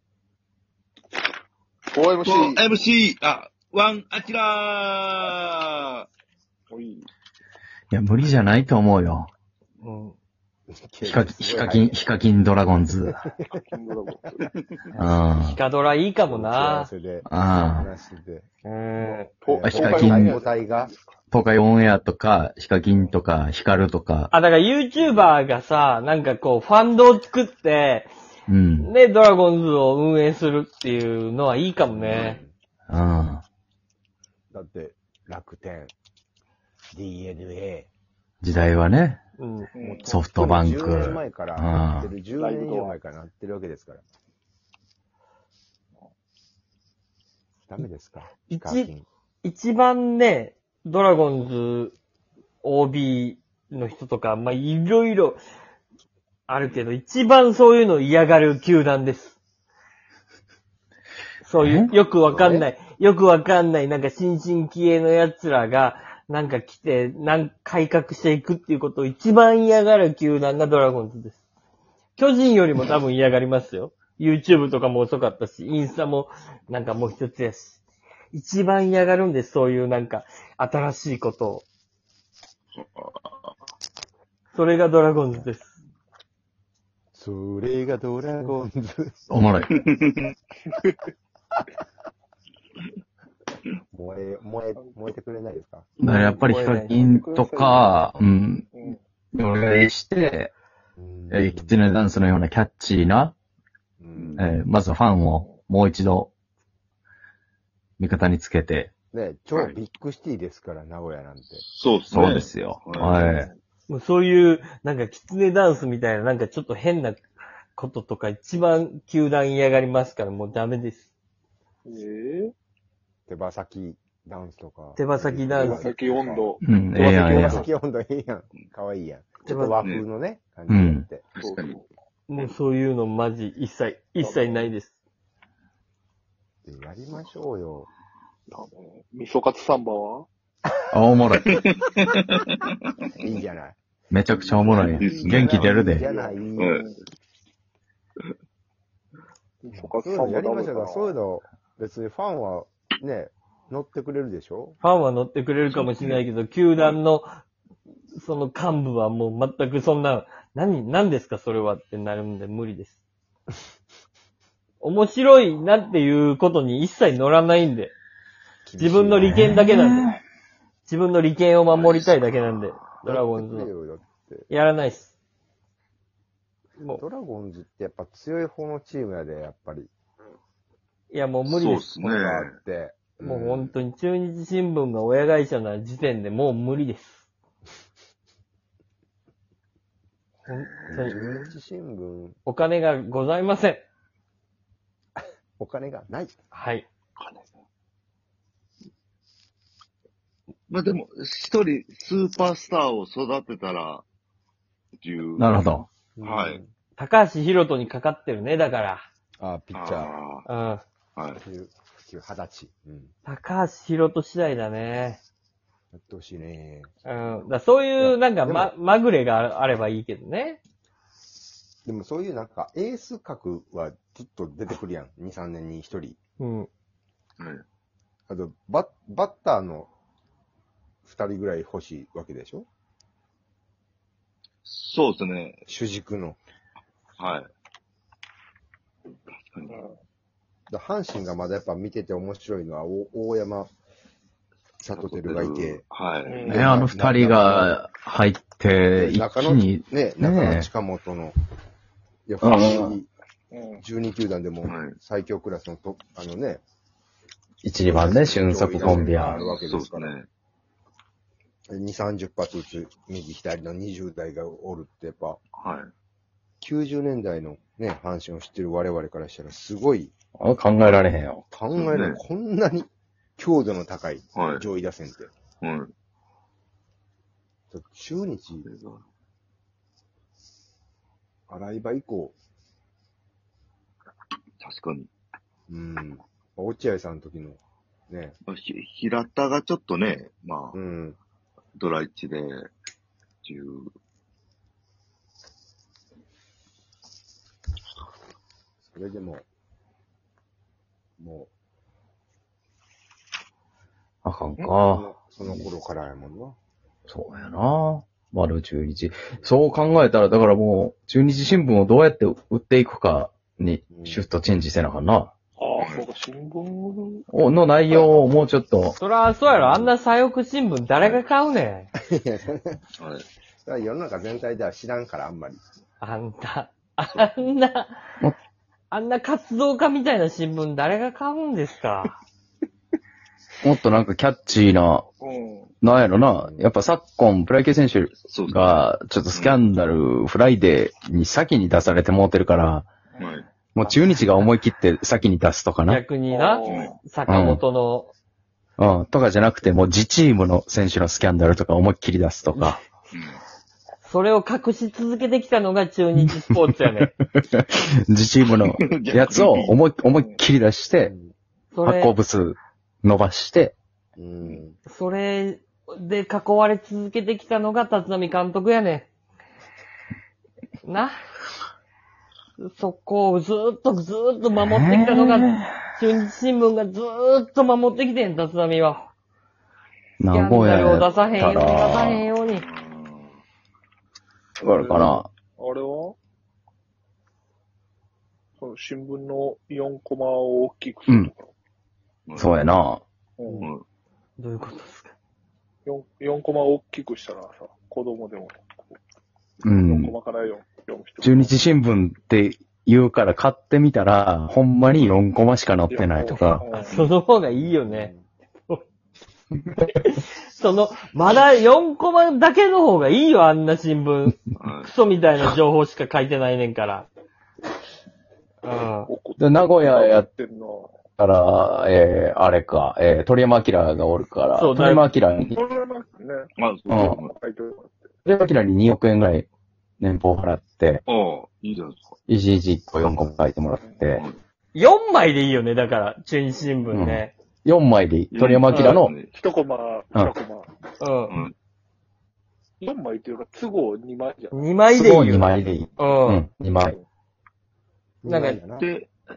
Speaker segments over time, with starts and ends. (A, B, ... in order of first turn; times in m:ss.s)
0:01.9-0:02.6 A
0:02.2-0:06.1 B
0:06.7-0:07.1 A
0:07.9-0:09.3 C
0:09.8-0:10.1 D
0:10.7-0:12.0 E
0:11.0-0:13.2 C
0:13.0-0:13.6 E
0:13.5-0:14.5 A
0:14.9-0:16.9 D
0:14.9-0:15.6 C
0:16.2-0:18.5 E
0:17.3-0:17.9 C
0:18.6-0:19.3 D
0:19.0-0:21.2 A
0:19.4-0:20.9 E
0:19.6-0:20.4 C
0:21.3-0:24.3 C
0:22.9-0:23.2 E
0:24.3-0:28.1 D
0:28.5-0:28.9 C
0:28.8-0:32.4 D
0:31.8-0:32.5 E
0:32.9-0:33.4 C
0:34.5-0:35.9 E
0:36.9-0:37.9 E
0:38.4-0:39.2 C
0:39.4-0:39.7 D
0:39.7-0:40.3 A
0:39.8-0:44.0 E
0:40.0-0:42.1 C
0:42.3-0:43.0 A
0:47.7-0:49.0 E
0:48.5-0:48.9 D
0:49.4-0:52.0 D
0:52.6-0:55.4 D
0:56.5-0:59.4 D
1:01.4-1:11.4 D
1:01.6-1:01.9 C
1:02.4-1:02.6 E
1:12.2-1:17.8 D
1:18.3-1:21.7 D
1:22.7-1:23.5 B
1:24.5-1:25.8 D
1:27.1-1:29.3 E
1:29.3-1:29.7 C
1:29.7-1:31.0 B
1:33.9-1:35.9 E
1:34.8-1:35.1 A
1:36.0-1:38.7 C
1:36.0-1:37.0 D
1:36.9-1:38.2 A
1:38.7-1:39.0 A
1:39.3-1:40.5 C
1:41.0-1:41.8 E
1:41.3-1:43.3 C
1:44.0-1:44.4 E
1:44.2-1:44.5 B
1:44.4-1:46.3 C
1:45.3-1:45.6 A
1:48.0-1:48.9 C
1:49.1-1:51.6 E
1:51.7-1:53.5 B
1:52.1-1:53.5 C
1:53.9-1:57.2 D
1:57.8-2:01.1 D
2:01.9-2:02.5 A
2:03.3-2:11.3 E
2:05.0-2:05.9 D
2:05.6-2:07.7 A
2:06.6-2:07.7 C
2:09.4-2:09.8 D
2:10.7-2:11.0 C
2:11.3-2:11.8 B
2:11.4-2:11.8 A
2:12.3-2:14.9 D
2:14.2-2:14.7 A
2:16.6-2:17.9 E
2:18.5-2:20.3 A
2:20.9-2:21.5 C
2:21.3-2:22.8 B
2:23.2-2:23.8 E
2:24.1-2:26.0 C
2:24.3-2:25.7 B
2:24.3-2:26.8 E
2:25.7-2:27.0 A
2:26.6-2:26.8 B
2:29.6-2:31.2 A
2:29.7-2:34.8 E
2:34.8-2:37.3 D
2:35.7-2:36.2 B
2:38.1-2:42.9 D
2:44.8-2:47.9 D
2:48.7-2:49.4 E
2:48.8-2:50.1 D
2:49.2-2:50.2 C
2:50.9-2:53.7 D
2:51.7-2:53.0 B
2:53.0-2:54.4 E
2:54.5-2:55.1 D
2:57.0-2:59.9 E
3:01.1-3:01.9 D
3:01.5-3:02.6 B
3:02.0-3:03.7 E
3:03.2-3:07.2 D
3:10.5-3:11.1 D
3:10.8-3:11.4 B
3:10.9-3:12.4 E
3:12.4-3:13.8 D
3:15.6-3:16.3 E
3:16.5-3:16.8 D
3:17.2-3:17.5 B
3:20.7-3:24.0 B
3:25.0-3:25.6 B
3:25.4-3:25.9 C
3:26.2-3:26.7 E
3:26.2-3:26.6 B
3:27.0-3:29.0 D
3:29.4-3:30.1 E
3:29.7-3:30.4 B
3:30.5-3:30.8 D
3:31.2-3:31.4 B
3:31.3-3:33.1 E
3:33.2-3:35.2 D
3:35.9-3:36.9 E
3:37.0-3:40.6 D
3:38.0-3:38.7 E
3:41.8-3:46.2 E
3:46.4-3:46.7 D
3:47.4-3:47.6 B
3:48.3-3:49.9 E
3:51.0-3:52.7 E
3:54.6-3:55.6 B
3:55.7-3:56.4 E
3:57.2-3:57.5 B
3:59.3-3:59.8 B
4:00.7-4:03.7 E
4:04.8-4:05.8 E
4:04.9-4:06.5 B
4:06.2-4:06.7 A
4:06.4-4:07.8 E
4:06.5-4:10.7 C
4:08.9-4:11.3 E
4:12.3-4:13.1 E
4:12.4-4:13.0 C
4:13.5-4:13.8 A
4:13.8-4:16.6 E
4:14.6-4:14.9 B
4:17.6-4:19.4 C
4:17.8-4:20.1 E
4:18.8-4:20.3 B
4:21.7-4:25.4 E
4:25.6-4:25.9 B
4:26.6-4:30.1 E
4:30.4-4:31.4 C
4:31.5-4:35.3 E
4:31.8-4:32.2 B
4:34.4-4:34.6 B
4:35.6-4:35.9 B
4:37.7-4:38.7 E
4:38.6-4:39.0 B
4:41.5-4:42.4 E
4:44.6-4:45.1 B
4:45.7-4:48.4 E
4:48.5-4:50.8 B
4:50.7-4:51.2 E
4:51.8-4:52.7 B
4:53.4-4:53.9 B
4:58.9-4:59.4 E
5:01.2-5:01.5 E
5:04.2-5:05.6 C
5:04.8-5:06.6 E
5:07.1-5:15.3 C
5:13.9-5:14.2 E
5:15.6-5:17.3 A
5:15.8-5:16.1 B
5:17.3-5:19.0 C
5:19.0-5:21.9 D
5:19.4-5:19.9 E
5:22.0-5:22.8 E
5:23.0-5:23.2 B
5:23.6-5:25.6 E
5:26.0-5:28.0 D
5:28.9-5:32.2 D
5:33.6-5:35.0 C
5:35.2-5:35.7 A
5:35.8-5:42.9 C
5:36.4-5:36.6 E
5:38.2-5:39.6 B
5:43.2-5:43.5 B
5:43.8-5:46.0 C
5:45.9-5:48.1 D
5:46.3-5:47.0 A
5:46.7-5:46.9 B
5:47.3-5:47.6 C
5:48.8-5:52.8 C
5:52.5-5:52.8 D
5:53.1-5:53.4 B
5:54.0-5:57.1 D
5:56.2-6:01.1 C
5:58.7-5:59.8 B
6:00.1-6:00.4 A
6:01.0-6:01.3 E
6:01.7-6:02.1 D
6:01.8-6:03.8 C
6:04.2-6:04.8 E
6:04.9-6:09.1 D
6:10.8-6:11.1 D
6:12.6-6:19.1 D
6:14.6-6:15.8 C
6:20.2-6:22.2 C
6:20.3-6:22.6 D
6:22.6-6:23.4 B
6:24.6-6:26.2 A
6:24.6-6:25.3 C
6:28.6-6:31.5 A
6:32.2-6:32.5 B
6:32.4-6:33.0 C
6:33.4-6:33.7 A
6:34.4-6:35.1 D
6:35.8-6:39.0 A
6:39.6-6:40.1 C
6:39.7-6:41.7 A
6:41.2-6:46.6 C
6:45.9-6:47.0 A
6:46.2-6:48.1 D
6:47.5-6:48.2 E
6:49.8-6:57.1 D
6:54.6-6:54.9 B
6:58.6-6:59.1 D
6:59.0-7:01.0 A
6:59.4-7:00.3 C
7:01.2-7:05.6 C
7:04.6-7:05.0 D
7:05.5-7:06.5 A
7:06.6-7:07.3 B
7:06.9-7:07.2 C
7:07.0-7:08.1 A
7:08.2-7:09.5 C
7:10.0-7:11.0 C
7:11.1-7:12.2 B
7:12.3-7:14.2 C
7:14.7-7:17.3 D
7:16.9-7:19.1 C
7:18.3-7:19.3 B
7:18.7-7:19.0 D
7:19.3-7:20.7 A
7:21.0-7:21.4 D
7:21.3-7:21.6 B
7:22.8-7:24.7 A
7:24.5-7:26.4 D
7:24.9-7:26.9 C
7:28.2-7:28.9 E
7:28.2-7:28.6 D
7:28.8-7:29.1 B